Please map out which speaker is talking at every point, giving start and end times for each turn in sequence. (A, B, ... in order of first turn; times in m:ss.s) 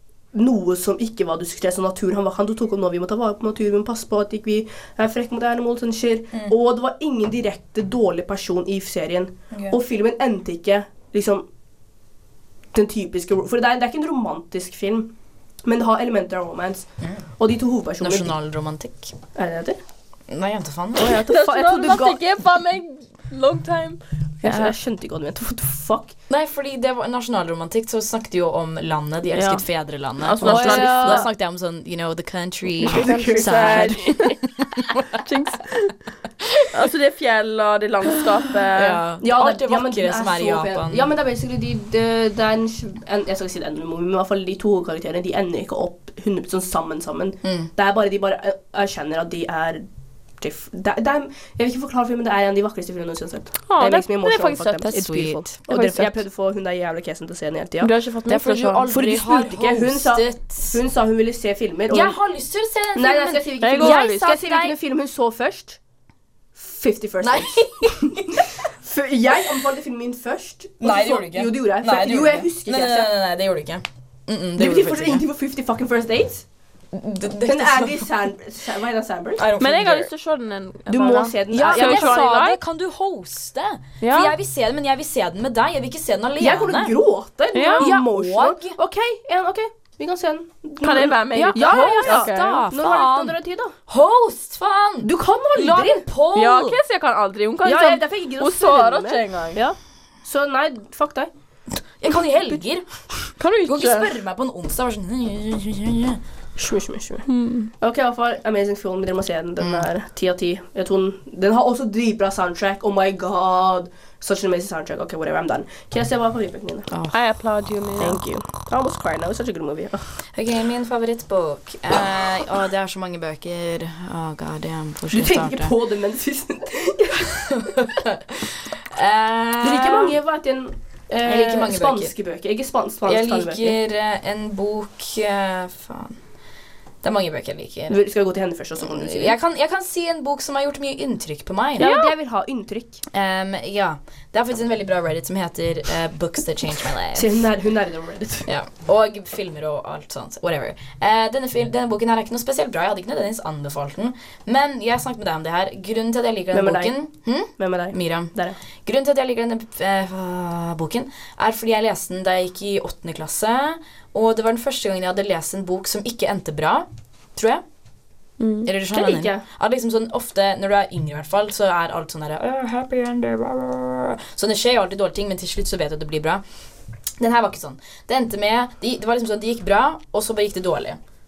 0:00.3-0:11.5 A
0:12.7-0:15.1 A
0:15.6-0:18.3 A
0:17.0-0:17.2 B
0:18.0-0:19.2 B
0:19.4-0:19.8 A
0:20.3-0:21.2 B
0:21.0-0:22.2 A
0:21.3-0:24.8 C
0:24.4-0:26.2 A
0:26.3-0:35.2 B
0:29.3-0:31.3 C
0:30.4-0:31.3 A
0:32.8-0:34.2 A
0:32.8-0:34.4 C
0:35.2-0:36.0 C
0:36.7-0:39.0 C
0:38.7-0:41.1 B
0:39.2-0:49.9 A
0:47.4-0:47.7 B
0:50.4-0:57.9 A
0:53.7-0:55.1 C
0:54.8-0:55.6 B
0:55.7-0:56.2 C
0:57.8-0:58.9 C
0:58.3-1:00.8 B
0:58.9-1:02.2 A
1:01.9-1:04.7 B
1:03.0-1:05.8 A
1:03.6-1:04.4 C
1:06.6-1:13.1 A
1:07.2-1:08.4 B
1:10.8-1:15.2 B
1:14.6-1:16.4 A
1:16.9-1:18.1 B
1:17.5-1:19.4 A
1:19.4-1:20.1 B
1:19.6-1:22.6 C
1:20.9-1:22.2 A
1:21.5-1:26.9 B
1:24.0-1:24.3 C
1:26.4-1:33.8 A
1:27.5-1:27.9 C
1:27.8-1:28.8 B
1:30.8-1:32.6 C
1:31.4-1:33.4 B
1:33.9-1:36.8 B
1:35.0-1:36.1 A
1:36.3-1:39.6 C
1:37.6-1:41.3 A
1:42.0-1:42.9 B
1:43.4-1:44.1 C
1:43.6-1:46.2 B
1:46.6-1:47.3 A
1:47.3-1:47.7 C
1:47.8-1:56.9 A
1:49.6-1:49.9 B
1:56.9-1:57.2 B
1:57.1-1:58.2 C
1:58.0-2:00.1 A
2:00.4-2:05.7 B
2:05.1-2:07.6 A
2:07.5-2:10.2 B
2:09.6-2:13.8 A
2:11.2-2:12.1 B
2:13.1-2:16.2 B
2:17.0-2:18.0 B
2:17.9-2:19.4 A
2:18.8-2:21.9 B
2:21.8-2:23.0 A
2:21.8-2:22.1 C
2:23.1-2:27.4 B
2:27.2-2:28.5 A
2:28.5-2:47.6 B
2:36.5-2:37.0 A
2:37.5-2:38.6 A
2:48.4-2:48.7 C
2:48.6-2:56.4 B
2:48.9-2:49.4 A
2:57.2-3:01.0 B